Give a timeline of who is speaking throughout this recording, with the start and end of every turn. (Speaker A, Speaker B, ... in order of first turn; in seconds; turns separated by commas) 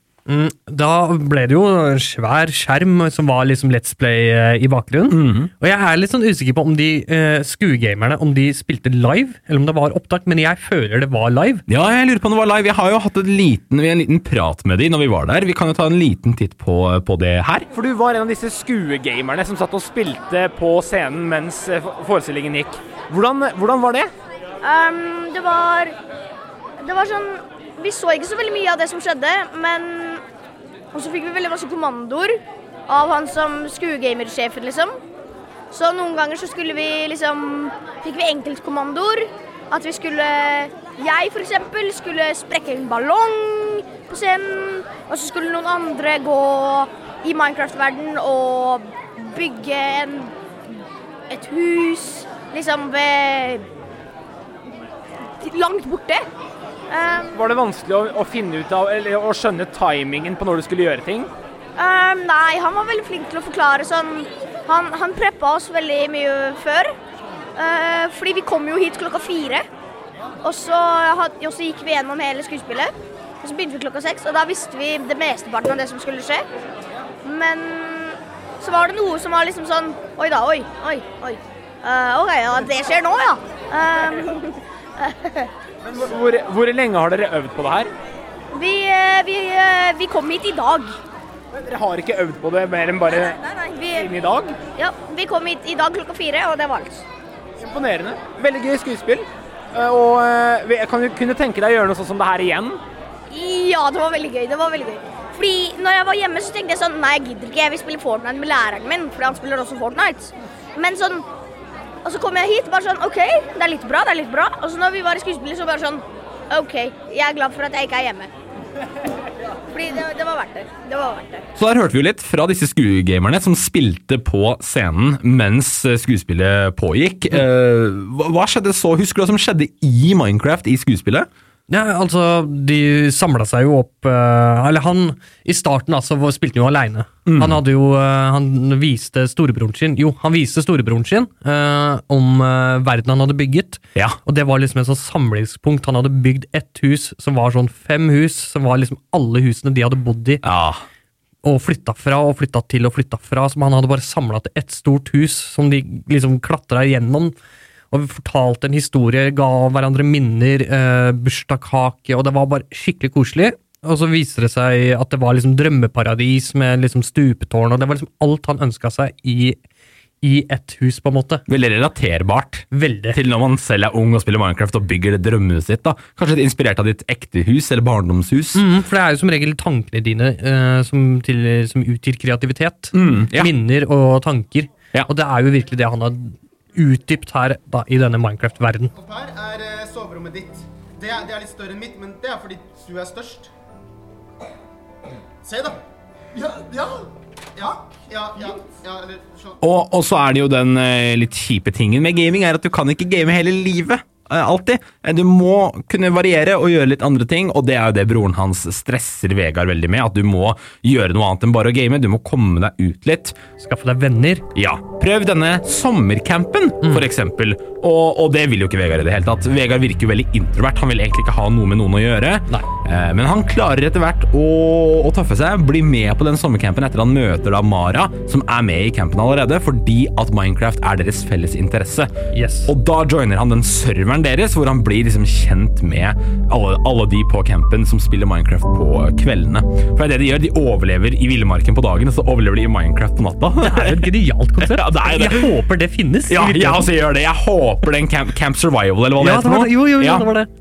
Speaker A: 0.3-11.6, Speaker B: 5.1-5.5, Speaker B: 11.7-17.7, Speaker C: 17.7-24.1, Speaker D: 24.6-25.9, Speaker D: 26.8-30.2, Speaker D: 30.9-35.0, Speaker D: 35.7-50.3, Speaker D: 51.3-53.6, Speaker D: 55.4-56.2, Speaker D: 56.9-57.4, Speaker C: 57.3-61.3, Speaker D: 61.8-66.9, Speaker D: 67.5-69.7, Speaker D: 70.4-76.5, Speaker D: 77.2-85.5, Speaker C: 85.9-87.9, Speaker D: 88.5-90.9, Speaker C: 91.5-93.4, Speaker C: 93.9-94.5, Speaker D: 94.8-97.0, Speaker C: 97.6-102.8, Speaker D: 103.3-111.3, Speaker D: 112.0-118.3, Speaker D: 119.7-121.4, Speaker B: 121.5-131.3, Speaker A: 131.7-150.4, Speaker B: 137.2-137.6, Speaker B: 150.4-150.8, Speaker A: 151.4-157.3, Speaker A: 157.9-169.6, Speaker A: 170.2-171.4, Speaker B: 171.5-178.6, Speaker A: 172.7-173.2, Speaker A: 178.5-188.9, Speaker B: 182.9-183.5, Speaker E: 188.9-193.5, Speaker E: 195.4-195.8, Speaker E: 196.3-199.6, Speaker B: 199.6-213.4, Speaker A: 213.6-214.4, Speaker B: 214.5-245.6, Speaker A: 232.3-232.7, Speaker A: 243.6-246.9, Speaker B: 246.3-250.3, Speaker A: 249.2-250.5